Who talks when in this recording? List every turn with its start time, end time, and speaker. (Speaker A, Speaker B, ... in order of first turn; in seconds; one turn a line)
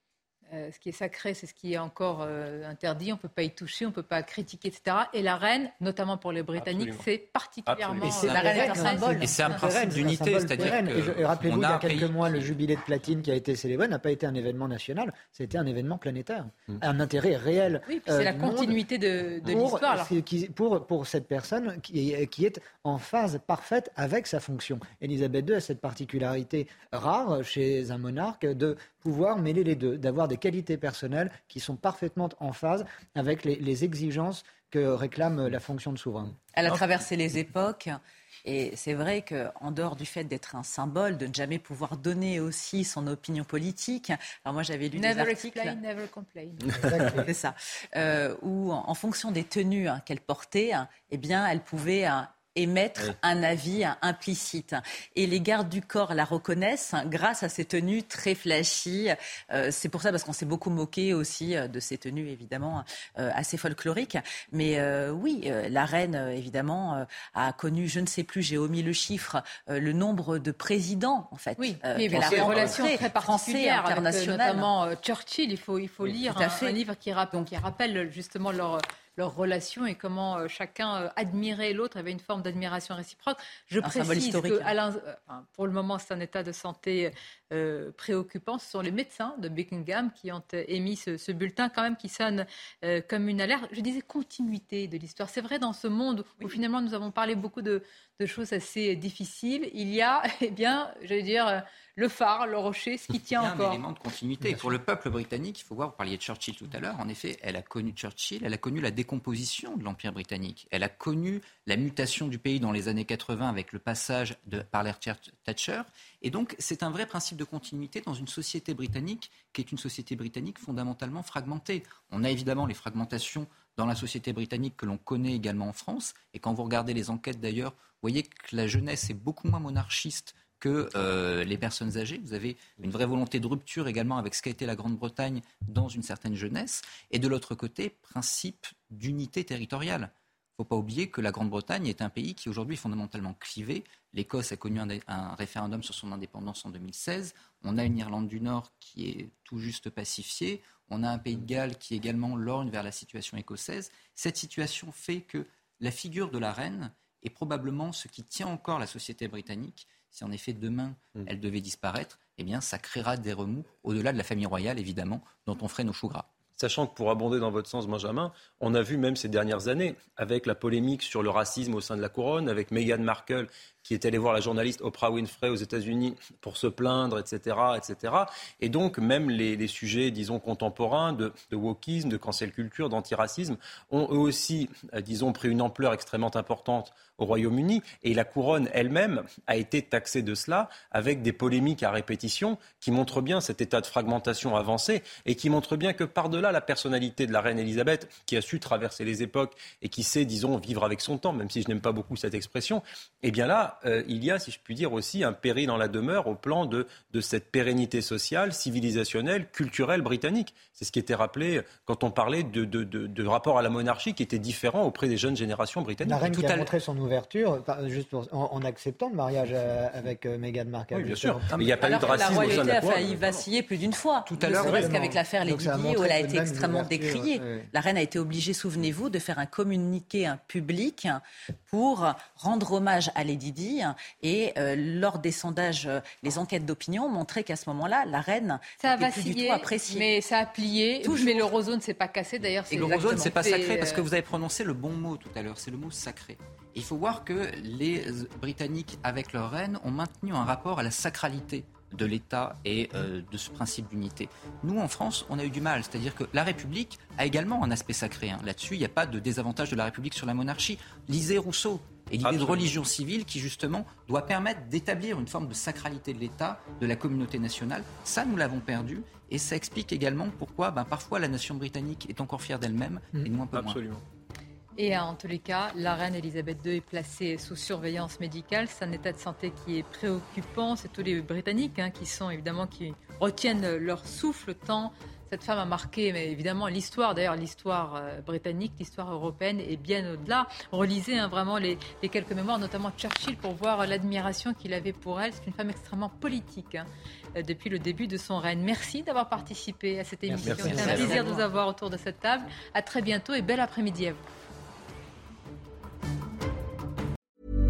Speaker A: 0.5-9.7
Speaker B: 6.5-7.0
Speaker B: 7.7-8.3
Speaker C: 8.1-18.8
Speaker D: 8.3-9.4
Speaker E: 9.2-12.5
Speaker A: 17.9-20.1
Speaker C: 19.4-36.3
Speaker D: 36.5-45.8
Speaker A: 44.9-47.0
Speaker C: 46.8-47.2
Speaker D: 47.2-74.7
Speaker A: 71.6-103.8
Speaker B: 72.2-72.7
Speaker D: 76.3-76.8
Speaker D: 83.8-84.7
Speaker E: 103.3-166.3
Speaker B: 166.6-216.7
Speaker C: 216.0-221.7
Speaker B: 220.9-223.3
Speaker D: 221.8-240.1
Speaker E: 224.3-224.8
Speaker C: 224.4-227.7
Speaker B: 224.6-224.9
Speaker A: 238.8-244.0
Speaker D: 241.0-241.5
Speaker E: 242.7-273.8
Speaker B: 262.2-262.7
Speaker B: 273.5-274.0
Speaker A: 274.8-304.2
Speaker C: 300.3-301.0
Speaker B: 300.4-301.2
Speaker D: 300.9-301.4